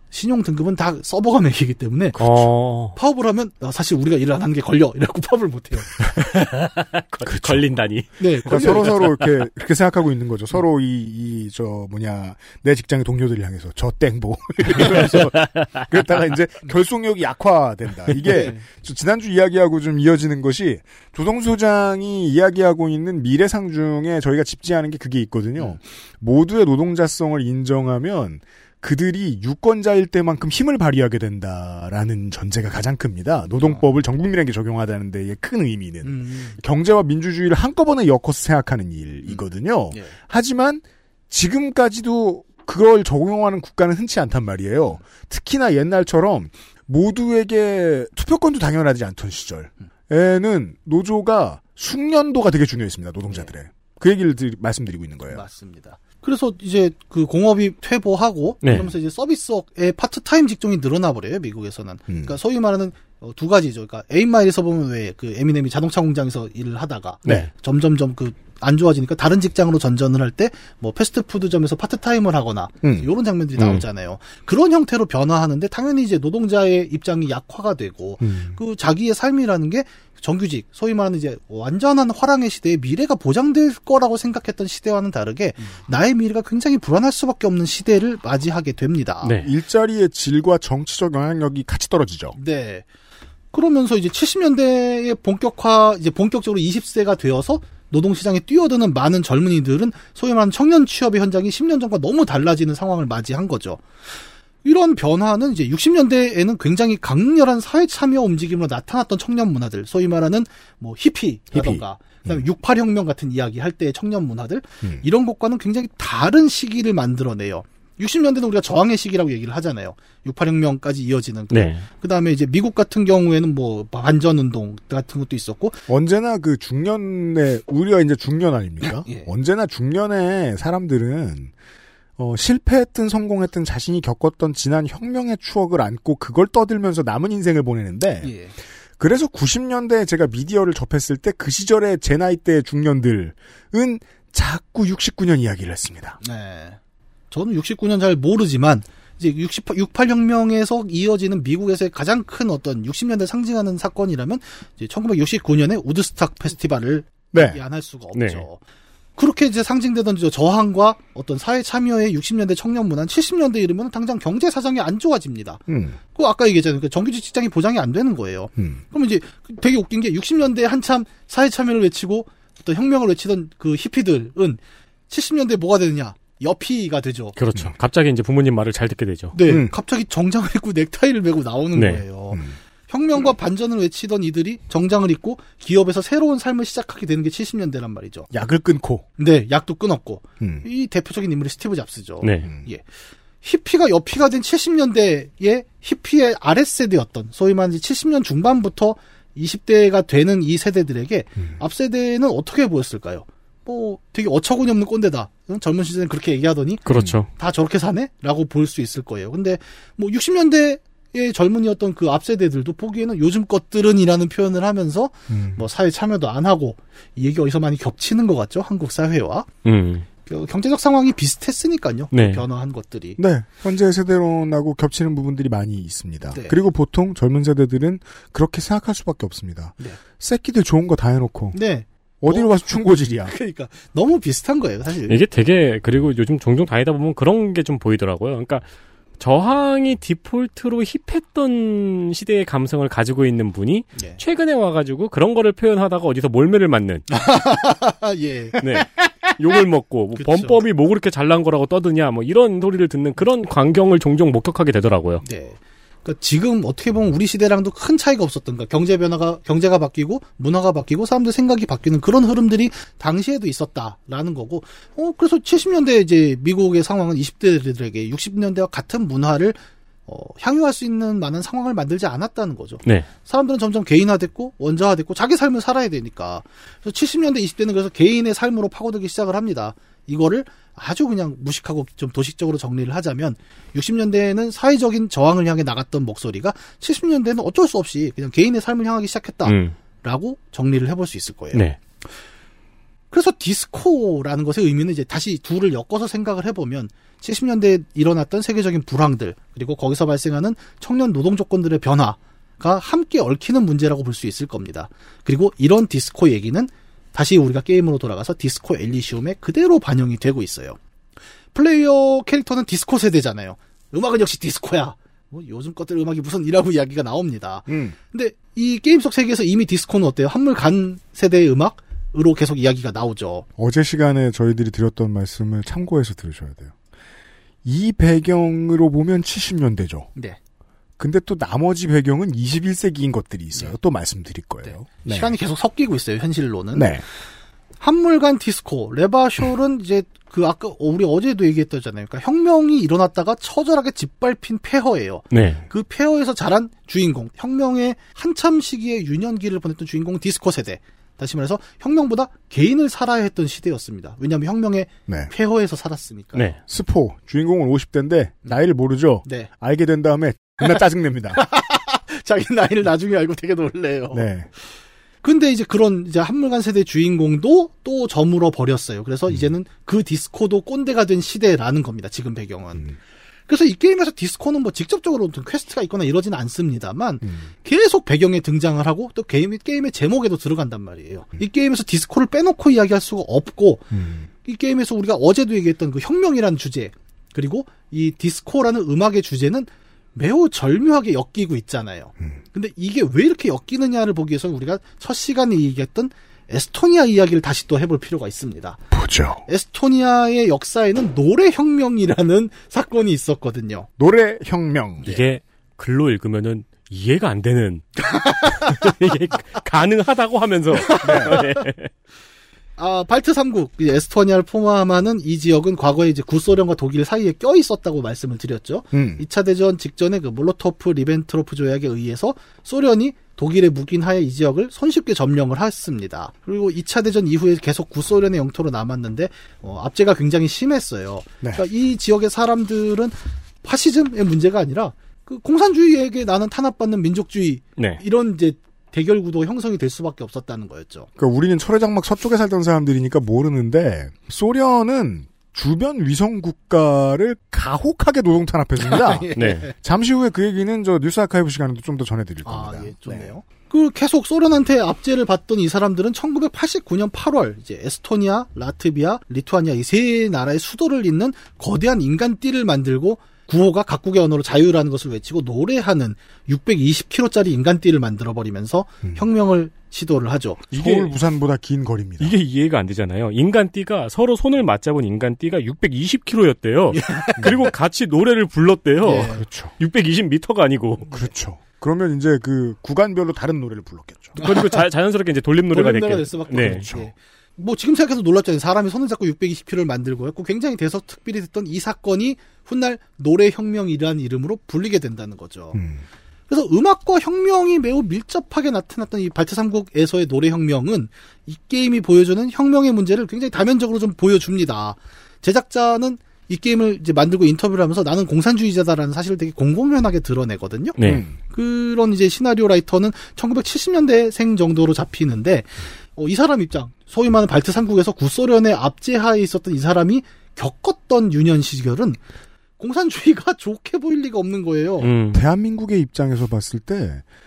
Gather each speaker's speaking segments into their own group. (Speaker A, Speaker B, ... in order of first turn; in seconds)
Speaker A: 0.1-2.2, 2.9-5.9, 8.2-8.9, 18.2-18.6, 33.6-33.9, 36.0-36.6, 39.3-40.1, 55.3-89.3, 92.3-92.8, 93.5-103.8, 104.6-125.8, 128.8-129.3, 138.2-138.5, 146.2-146.8, 147.3-158.6, 159.2-177.3, 179.3-188.3, 189.2-192.8, 193.4-206.8, 207.3-219.5, 220.2-223.2, 226.3-226.6, 231.5-235.2, 247.1-248.6, 250.2-250.6, 255.2-291.6, 293.1-310.8, 311.5-323.5, 334.6-337.0, 337.8-356.5, 359.2-359.5, 361.3-364.3, 365.2-372.9, 373.5-383.9, 384.4-398.8, 399.5-403.9, 408.0-408.8, 411.0-411.4, 412.8-441.1, 448.8-449.7, 452.4-470.7, 476.9-477.7, 479.0-479.4, 484.4-484.8, 485.7-495.8, 496.5-522.2, 522.8-525.1
Speaker B: 2.2-3.0, 6.1-9.1, 14.8-15.7, 58.6-58.9, 89.2-89.5, 121.5-121.8, 158.1-158.4, 177.3-179.3, 181.8-182.0, 192.2-192.5, 206.8-207.3, 219.6-220.1, 222.1-222.4, 235.1-238.6, 239.2-247.1, 248.6-255.2, 289.4-289.7, 291.5-291.8, 345.3-345.6, 356.3-356.6, 405.0-408.0, 408.6-411.9, 449.4-449.7, 470.7-471.1, 472.2-481.1, 484.4-486.9, 511.0-511.2, 525.0-525.4
Speaker C: 7.2-7.7, 8.4-55.4, 62.1-62.4, 72.8-73.1, 78.2-78.6, 89.4-92.3, 111.5-112.4, 125.9-131.5, 132.2-138.3, 139.0-146.2, 157.3-157.6, 165.7-166.0, 168.6-168.8, 179.5-179.7, 188.3-189.0, 206.9-207.2, 215.3-215.6, 223.2-231.6, 232.2-233.3, 317.7-317.9, 323.6-326.7, 327.6-330.1, 331.0-335.3, 336.7-337.0, 355.1-355.3, 356.7-361.4, 364.1-364.5, 377.2-377.5, 383.9-384.3, 398.9-399.4, 404.0-405.1, 411.0-411.4, 418.9-419.2, 441.2-453.3, 470.7-472.4, 479.1-479.7, 481.1-484.4, 486.5-487.1, 495.7-496.0, 511.0-511.4, 525.3-527.2